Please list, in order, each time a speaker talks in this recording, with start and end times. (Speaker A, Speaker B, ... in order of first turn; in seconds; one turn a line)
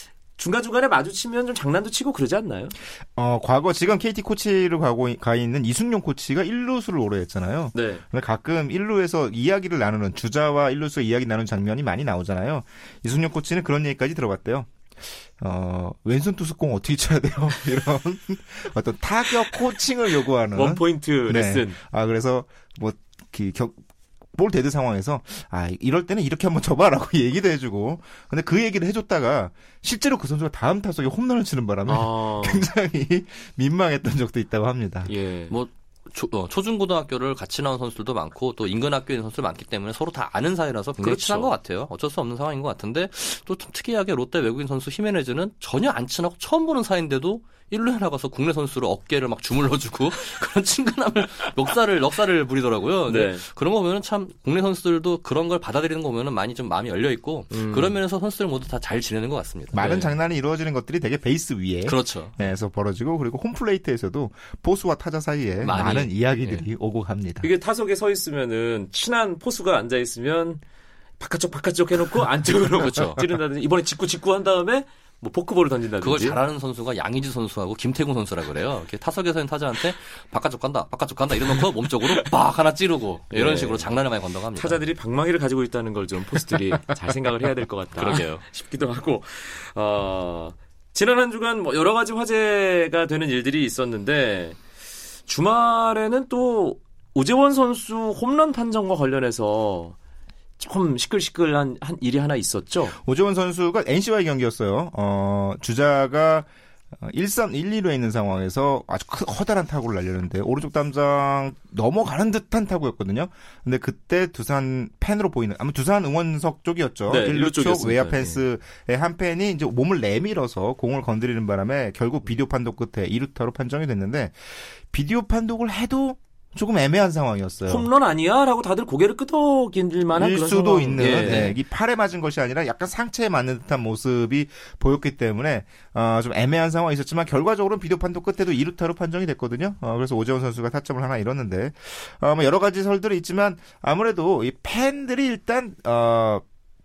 Speaker A: 0.4-2.7
Speaker B: 3.1-14.7
Speaker A: 7.7-8.0
Speaker B: 15.4-23.8
Speaker A: 20.5-21.8
Speaker B: 24.3-35.1
Speaker A: 31.9-32.7
Speaker A: 35.0-35.5
Speaker C: 35.5-60.0
Speaker A: 41.0-41.5
Speaker A: 53.1-53.4
Speaker A: 57.5-57.9
Speaker B: 59.7-67.5
Speaker A: 59.8-60.1
Speaker C: 61.9-62.4
Speaker C: 65.6-66.6
Speaker A: 67.4-70.6
Speaker A: 71.2-76.4
Speaker C: 72.8-73.2
Speaker C: 76.0-84.8
Speaker A: 83.3-84.0
Speaker A: 84.5-94.6
Speaker C: 88.0-88.4
Speaker A: 95.3-100.0
Speaker A: 100.6-103.0
Speaker B: 103.0-106.5
Speaker B: 107.0-127.9
Speaker A: 117.1-118.4
Speaker A: 127.7-131.5
Speaker B: 130.1-146.4
Speaker C: 131.0-131.6